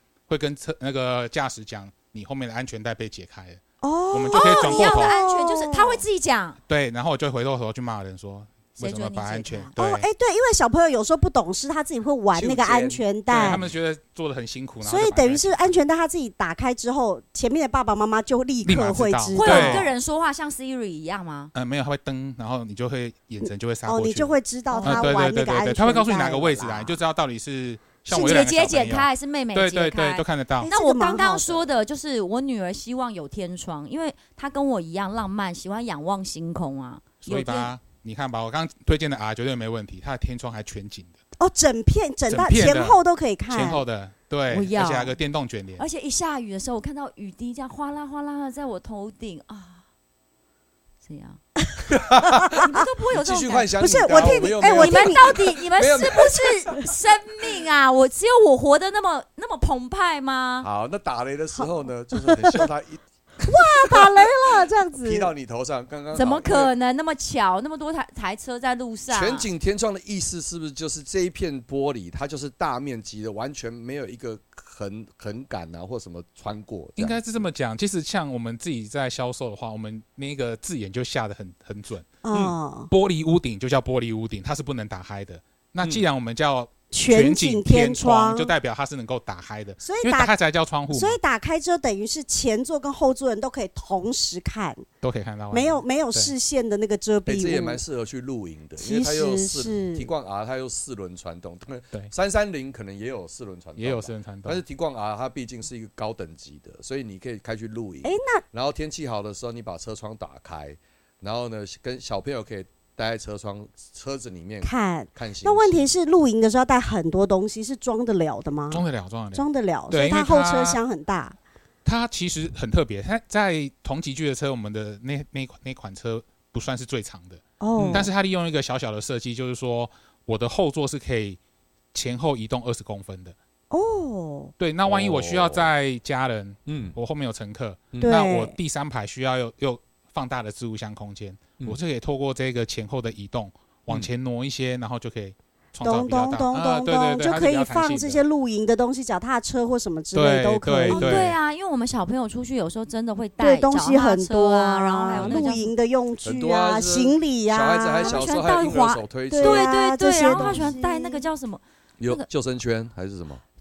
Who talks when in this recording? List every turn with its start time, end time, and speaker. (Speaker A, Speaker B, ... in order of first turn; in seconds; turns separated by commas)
Speaker A: 0.3-5.2, Speaker B: 3.8-6.0, Speaker C: 4.3-6.6, Speaker A: 6.7-10.1, Speaker C: 8.8-9.7, Speaker B: 9.8-13.7, Speaker D: 12.3-13.6, Speaker A: 13.3-15.8, Speaker B: 14.8-19.9, Speaker A: 18.6-19.9, Speaker C: 19.3-21.5, Speaker A: 21.5-30.7, Speaker B: 23.4-27.0, Speaker C: 24.7-25.1, Speaker C: 28.1-37.7, Speaker B: 30.6-31.7, Speaker A: 37.2-41.2, Speaker B: 41.4-43.8, Speaker A: 42.3-45.8, Speaker C: 44.5-45.1, Speaker C: 45.8-49.8, Speaker C: 51.0-51.4, Speaker D: 51.9-56.8, Speaker C: 52.6-60.7, Speaker B: 53.8-55.4, Speaker D: 60.6-64.2, Speaker B: 62.2-62.6, Speaker B: 63.4-65.3, Speaker D: 65.0-66.7, Speaker C: 66.1-69.5, Speaker D: 69.1-77.2, Speaker A: 77.0-82.1, Speaker B: 82.2-82.9, Speaker A: 82.9-91.2, Speaker B: 86.9-88.5, Speaker B: 89.8-90.3, Speaker B: 90.9-94.8, Speaker A: 95.0-96.3, Speaker B: 95.5-97.8, Speaker D: 97.2-115.9, Speaker B: 98.8-100.1, Speaker A: 103.8-104.6, Speaker B: 108.0-108.4, Speaker B: 114.6-121.3, Speaker A: 118.7-120.8, Speaker A: 121.8-131.4, Speaker B: 127.6-128.1, Speaker D: 127.8-128.1, Speaker A: 131.9-133.3, Speaker B: 133.7-134.5, Speaker A: 134.6-148.2, Speaker D: 134.8-135.7, Speaker D: 136.7-137.0, Speaker B: 138.0-138.6, Speaker B: 145.8-151.1, Speaker A: 150.1-151.3, Speaker C: 150.9-155.7, Speaker B: 153.4-158.7, Speaker D: 155.1-155.5, Speaker D: 156.2-159.7, Speaker C: 158.0-162.3, Speaker B: 159.3-161.3, Speaker A: 160.3-160.7, Speaker D: 162.0-163.4